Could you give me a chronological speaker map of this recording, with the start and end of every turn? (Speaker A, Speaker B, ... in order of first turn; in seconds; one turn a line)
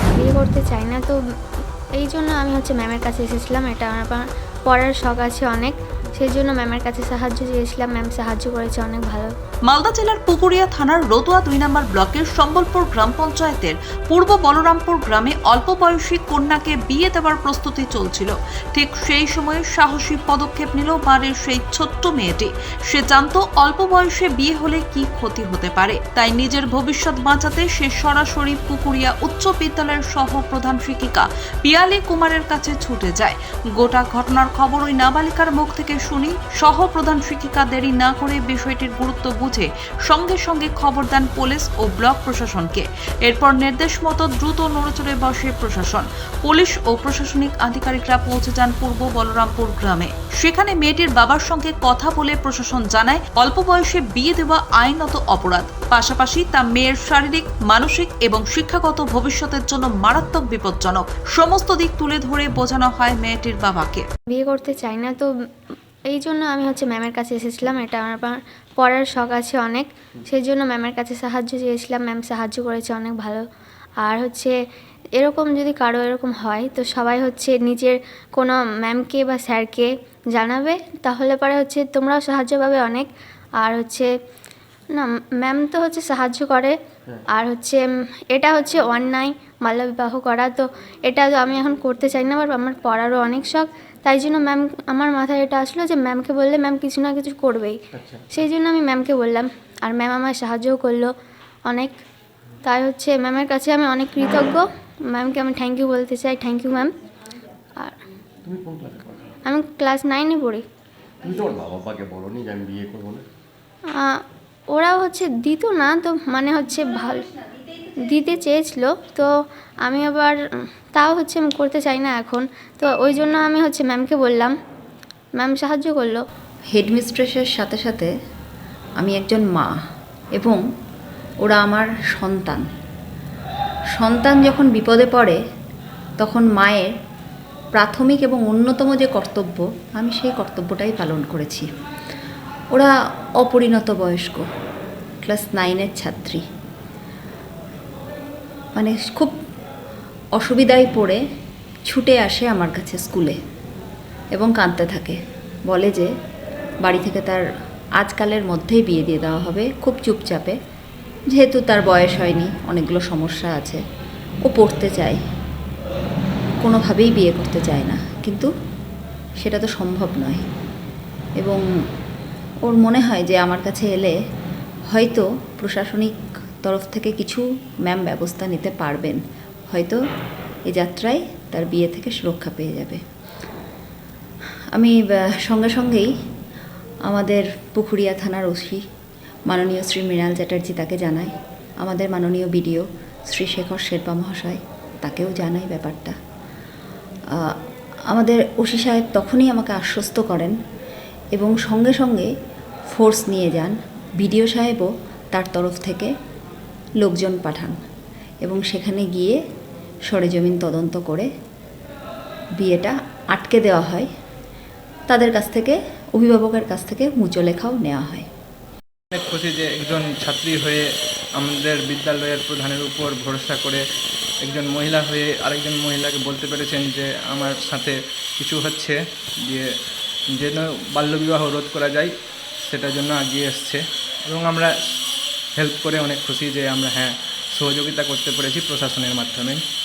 Speaker A: 0.1-1.2
Speaker A: 1.9-9.3
Speaker B: 9.7-64.0
Speaker A: 64.3-65.3
Speaker A: 66.1-73.5
Speaker A: 74.0-74.5
Speaker A: 75.2-83.1
Speaker A: 83.6-84.1
Speaker A: 85.0-86.8
Speaker A: 87.3-87.8
Speaker A: 88.3-101.1
Speaker C: 97.9-98.3
Speaker A: 101.7-102.0
Speaker A: 102.7-106.9
Speaker C: 108.4-109.4
Speaker A: 109.5-110.6
Speaker C: 111.2-113.2
Speaker A: 113.9-117.3
Speaker A: 118.0-119.3
Speaker A: 119.8-124.5
Speaker A: 125.4-126.2
Speaker D: 126.7-128.1
Speaker D: 129.0-129.7
Speaker D: 131.4-132.7
Speaker D: 133.9-135.4
Speaker D: 136.2-136.9
Speaker D: 137.8-141.7
Speaker D: 142.7-144.4
Speaker D: 145.2-146.4
Speaker D: 148.8-149.3
Speaker D: 150.4-151.2
Speaker D: 151.9-153.4
Speaker D: 154.3-156.1
Speaker D: 156.8-157.4
Speaker D: 158.0-160.6
Speaker D: 161.3-163.8
Speaker D: 164.4-165.2
Speaker D: 166.6-168.5
Speaker D: 169.4-170.5
Speaker D: 172.7-174.2
Speaker D: 174.9-176.1
Speaker D: 176.6-179.2
Speaker D: 179.7-180.0
Speaker D: 180.7-183.0
Speaker D: 184.7-186.1
Speaker D: 187.1-188.8
Speaker D: 189.5-196.2
Speaker D: 198.1-200.6
Speaker D: 201.3-202.3
Speaker D: 202.9-206.1
Speaker D: 207.0-207.8
Speaker D: 208.4-209.4
Speaker D: 210.1-211.3
Speaker D: 212.6-214.1
Speaker D: 215.1-218.3
Speaker E: 219.1-223.8
Speaker E: 224.4-229.7
Speaker E: 230.3-239.6